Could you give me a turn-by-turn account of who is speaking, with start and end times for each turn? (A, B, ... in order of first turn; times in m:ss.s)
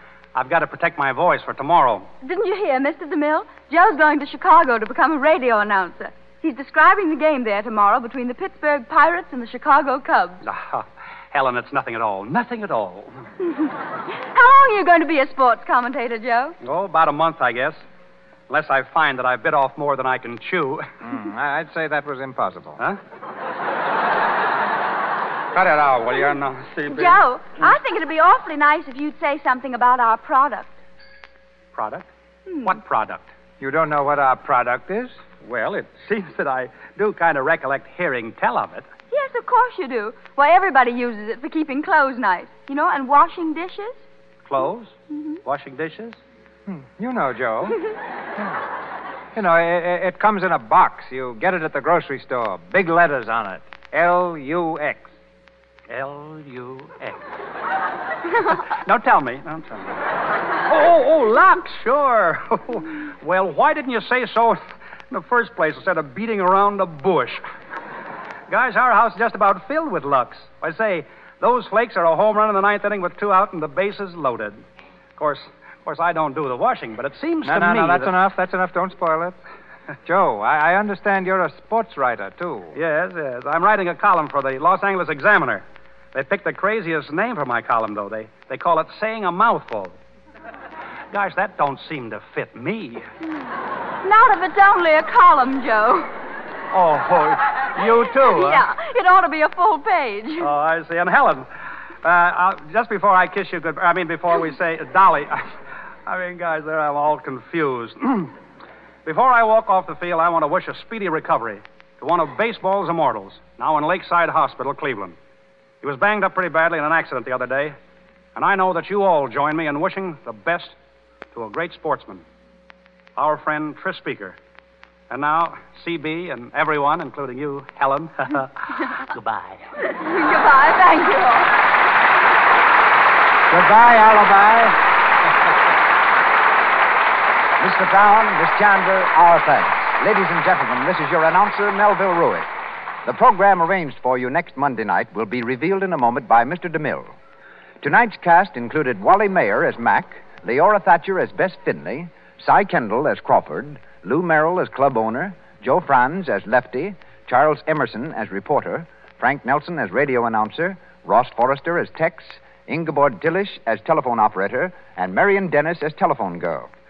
0:00.3-0:02.1 A
0:02.2-0:10.4 B
0:10.4-0:13.2 A
0:14.3-0:16.6 B
0:16.6-0:17.8 A
0:18.5-0:20.8 A
0:21.0-0:22.8 C
0:25.8-0:26.2 A
0:26.8-0:30.7 B
0:31.7-0:32.1 A
0:32.5-0:32.7 B
0:32.6-0:33.3 A
0:33.6-0:35.2 C
0:35.4-0:38.9 A
0:39.1-0:44.0 B
0:44.4-0:46.2 A
0:46.7-0:47.8 C
0:49.3-0:55.1 C
0:55.9-0:57.2 A
0:58.4-1:00.0 A
1:00.6-1:04.6 A
1:05.1-1:07.4 A
1:08.5-1:14.6 A
1:15.2-1:18.1 A
1:17.4-1:19.4 C
1:20.0-1:22.8 C
1:22.7-1:29.9 A
1:31.1-1:33.1 A
1:34.0-1:36.1 B
1:36.7-1:38.6 A
1:38.0-1:40.5 B
1:40.4-1:41.4 A
1:42.0-1:45.5 A
1:46.0-1:48.3 A
1:49.0-1:55.2 A
1:55.8-1:57.8 A
1:58.3-2:00.7 A
2:01.3-2:02.2 A
2:03.2-2:04.4 A
2:05.1-2:08.5 A
2:09.8-2:11.6 B
2:13.5-2:14.8 C
2:17.6-2:22.5 D
2:23.0-2:27.1 D
2:27.8-2:46.7 D